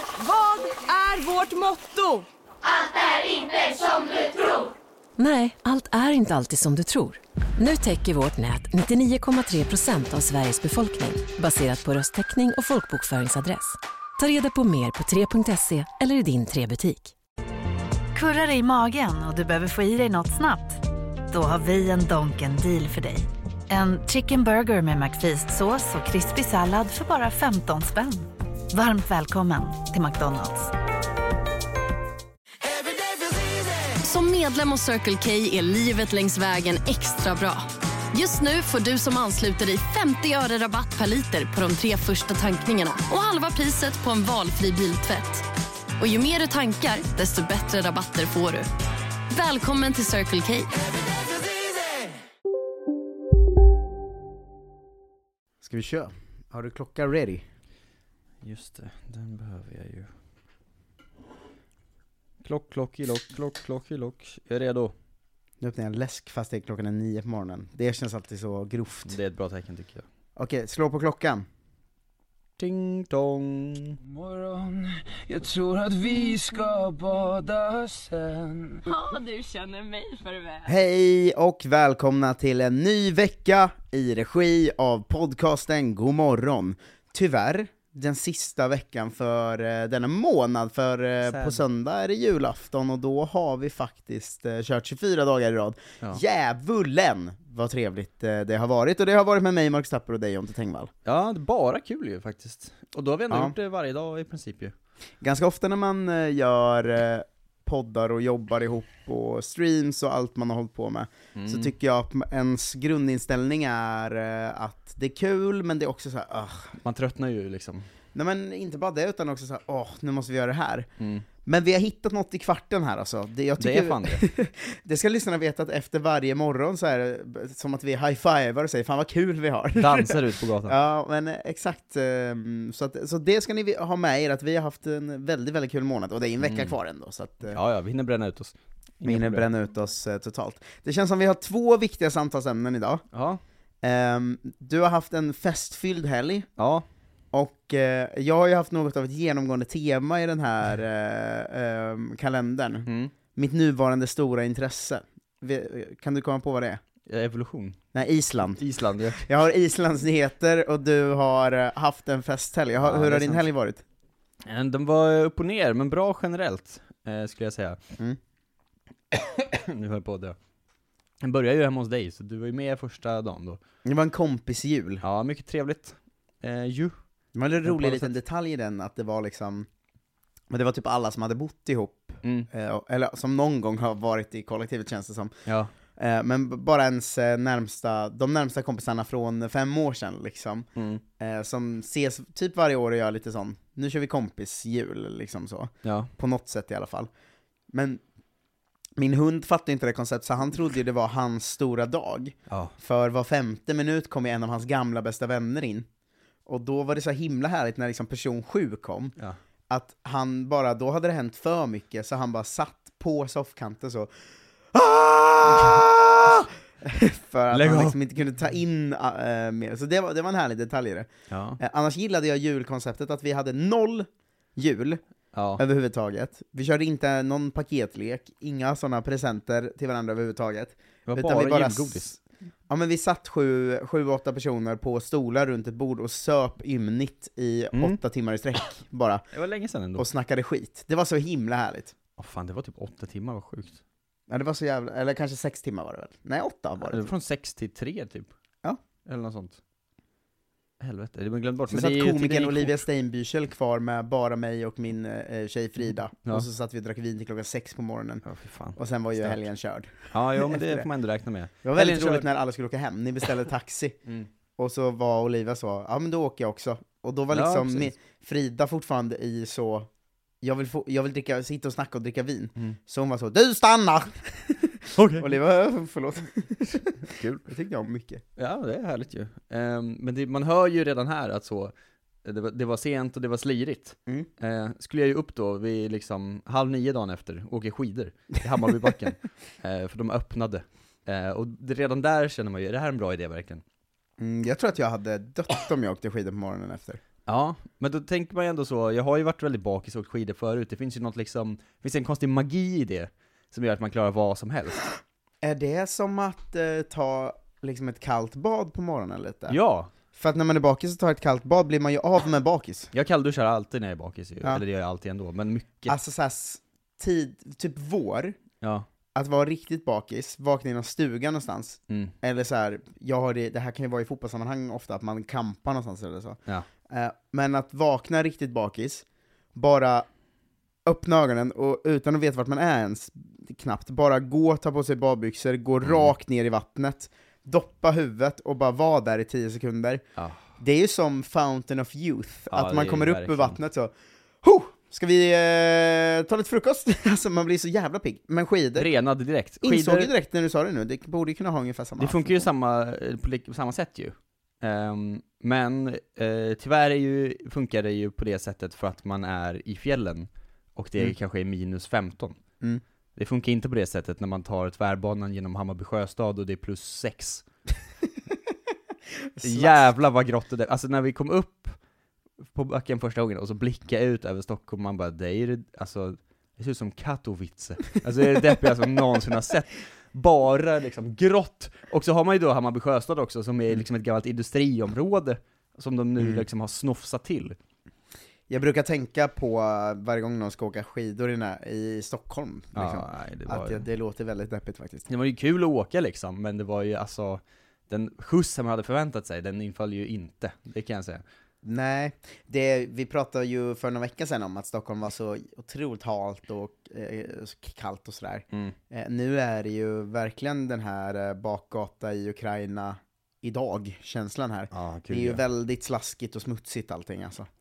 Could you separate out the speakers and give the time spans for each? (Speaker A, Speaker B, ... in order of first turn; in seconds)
Speaker A: 0.2-2.2, 79.2-80.5
Speaker B: 5.2-17.1
Speaker C: 18.1-30.7
Speaker D: 34.0-45.4, 46.0-48.7, 49.3-50.7
Speaker E: 55.6-57.4, 65.6-69.2, 70.3-71.4, 80.7-100.9, 103.3-103.5, 105.2-116.8, 118.1-120.9, 121.4-137.6, 139.0-143.0, 143.8-146.5, 147.3-156.8, 157.9-163.8, 173.8-175.0, 177.3-179.7, 180.5-185.3, 185.9-190.7, 191.2-197.1, 197.7-198.0, 199.0-205.8, 206.4-209.2, 209.7-214.1, 214.7-225.0, 225.6-232.1, 232.7-239.2, 239.9-241.9, 244.3-247.1, 251.7-258.2, 258.8-260.9, 261.6-263.9, 264.6-269.9, 270.4-278.2, 294.2-297.0, 305.4-309.6, 310.1-312.9, 315.9-318.4, 319.1-329.0, 329.5-330.1, 330.9-340.0, 340.6-348.9, 349.6-352.4, 369.3-369.9, 386.2-386.4, 388.5-395.1, 401.6-417.5
Speaker F: 58.4-60.1, 62.4-64.9, 69.0-70.0, 72.6-74.0, 91.3-91.6, 101.0-104.7, 111.3-111.7, 116.8-117.8, 121.0-121.2, 123.6-124.2, 129.8-130.8, 136.4-136.7, 137.5-139.5, 143.1-143.4, 146.6-146.8, 152.8-153.1, 157.1-157.8, 158.6-159.2, 162.8-163.4, 164.4-167.8, 169.1-170.3, 171.2-173.6, 175.0-176.9, 177.6-178.1, 185.4-185.7, 190.8-191.0, 195.8-196.1, 202.5-202.7, 217.5-217.9, 221.3-221.6, 225.3-225.6, 231.1-232.2, 237.7-238.0, 239.3-240.1, 242.2-243.8, 246.8-248.3, 249.1-249.6, 250.8-252.8, 258.2-259.4, 260.1-262.3, 267.3-267.9, 275.0-275.3, 277.0-277.4, 278.4-281.7, 282.2-293.6, 297.3-304.9, 309.5-309.9, 312.9-315.9, 318.6-318.9, 335.8-336.1, 342.5-343.6, 348.8-350.1, 352.0-362.4, 363.1-367.4, 369.4-371.8, 372.4-387.6, 392.7-393.9, 395.1-401.2, 414.7-415.4
Speaker G: 74.2-78.8